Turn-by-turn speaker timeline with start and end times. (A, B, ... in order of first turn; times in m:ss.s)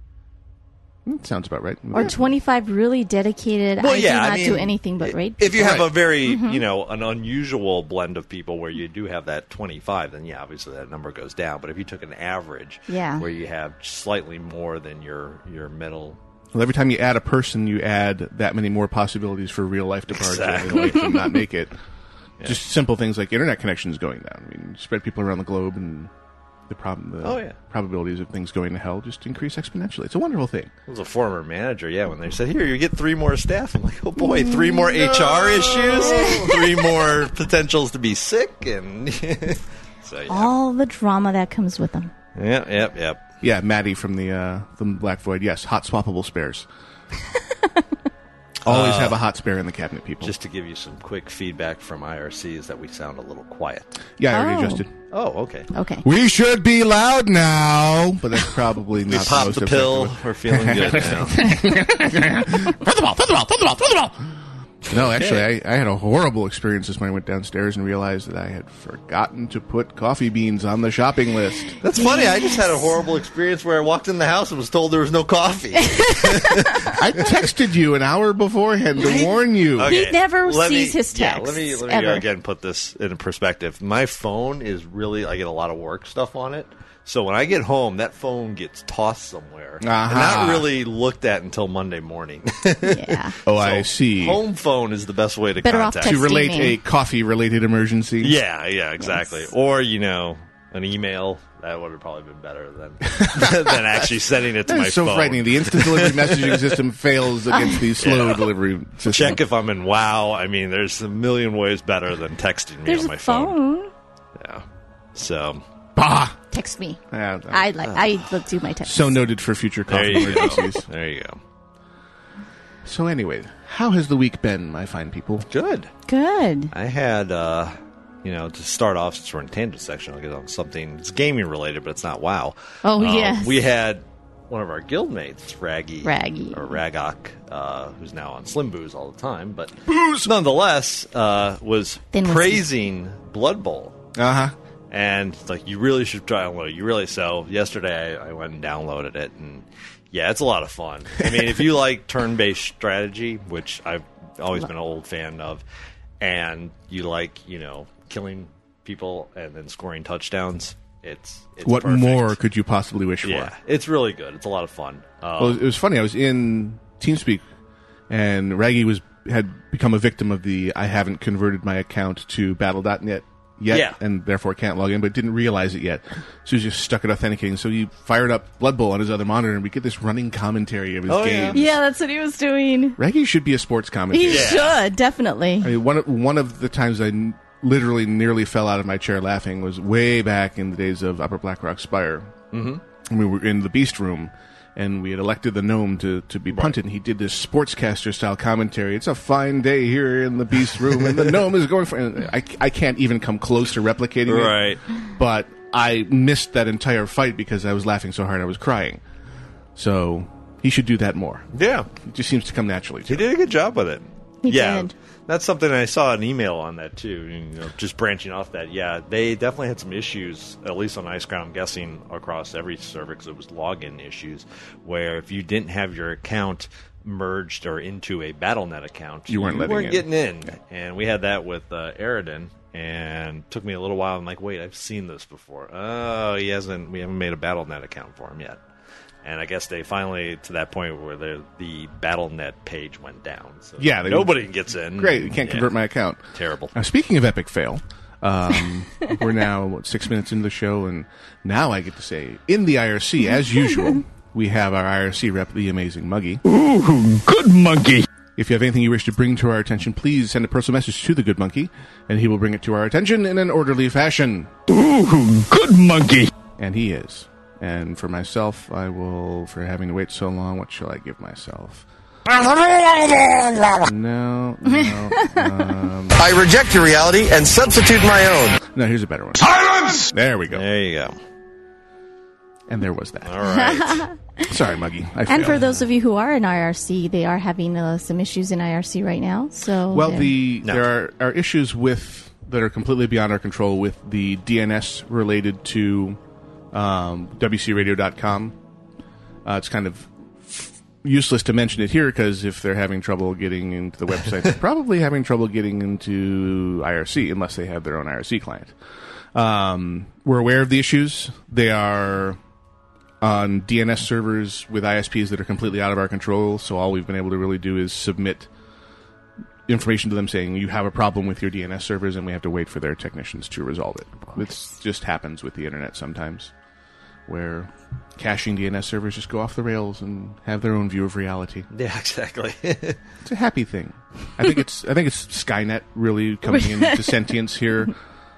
0:01.1-0:02.2 A
0:01.9-0:06.6 B
0:03.8-0:16.2 C
0:05.6-0:05.9 A
0:12.9-0:13.2 B
0:16.5-0:21.8 A
0:20.1-0:21.2 C
0:22.4-0:26.1 A
0:26.7-0:30.7 A
0:27.2-0:27.6 C
0:30.9-0:40.5 C
0:34.3-0:34.8 B
0:35.4-0:36.4 A
0:36.0-0:36.5 B
0:40.3-0:42.1 B
0:42.4-0:43.2 C
0:43.4-0:46.7 A
0:48.6-0:49.2 C
0:48.6-0:50.4 A
0:50.2-0:54.0 C
0:54.2-0:54.9 A
0:54.3-0:54.8 B
0:55.1-0:55.7 C
0:55.7-0:56.0 B
0:56.0-1:04.4 A
0:59.1-1:01.5 C
1:04.9-1:11.8 A
1:04.9-1:05.5 C
1:11.8-1:17.0 C
1:12.0-1:12.5 B
1:17.0-1:19.9 A
1:19.0-1:36.3 C
1:19.8-1:22.2 B
1:29.8-1:30.7 A
1:32.8-1:33.3 B
1:33.5-1:34.4 A
1:35.6-1:36.8 B
1:36.0-1:38.4 A
1:38.2-1:46.8 C
1:43.1-1:43.9 A
1:44.6-1:49.4 A
1:47.5-1:47.9 B
1:48.0-1:53.6 C
1:52.9-1:53.9 B
1:54.4-1:54.6 C
1:55.2-1:55.6 C
1:56.0-1:56.4 A
1:56.5-1:59.2 B
1:57.1-1:57.7 A
1:58.8-2:00.8 A
1:59.9-2:01.4 C
2:02.8-2:05.5 A
2:05.5-2:05.9 C
2:06.1-2:06.7 B
2:06.7-2:24.0 C
2:12.8-2:13.6 B
2:16.0-2:16.8 B
2:19.9-2:20.3 A
2:22.1-2:22.7 B
2:24.2-2:24.6 A
2:24.9-2:35.6 C
2:36.2-2:42.4 C
2:41.6-2:43.5 A
2:43.2-2:45.6 C
2:45.4-2:47.4 A
2:48.1-3:01.7 A
2:53.7-2:54.0 C
3:01.1-3:01.6 C
3:01.5-3:03.0 B
3:03.0-3:04.7 A
3:04.1-3:05.7 B
3:04.3-3:04.8 C
3:05.6-3:12.4 A
3:12.5-3:12.8 C
3:13.1-3:29.0 A
3:16.5-3:16.8 C
3:24.3-3:24.8 C
3:29.8-3:33.3 A
3:31.5-3:31.9 C
3:33.1-3:58.6 C
3:34.4-3:34.9 B
3:49.3-3:50.1 A
3:59.2-4:05.7 C
4:03.8-4:06.2 A
4:06.3-4:06.8 C
4:06.7-4:16.4 A
4:16.5-4:18.0 D
4:18.4-4:24.5 A
4:24.7-4:26.3 D
4:26.6-4:31.9 A
4:33.8-4:36.2 A
4:36.2-4:38.6 E
4:38.6-4:40.6 A
4:40.5-4:41.2 C
4:42.7-4:43.4 A
4:43.2-4:44.1 C
4:43.7-4:44.2 B
4:44.4-4:45.6 A
4:45.3-4:50.4 B
4:49.9-4:56.2 A
4:50.6-4:50.9 C
4:56.7-4:58.6 A
4:59.4-5:08.7 A
5:09.3-5:12.4 A
5:13.2-5:18.5 A
5:19.7-5:26.5 A
5:27.3-5:31.7 A
5:31.7-5:33.0 C
5:33.2-5:37.9 A
5:36.5-5:37.3 B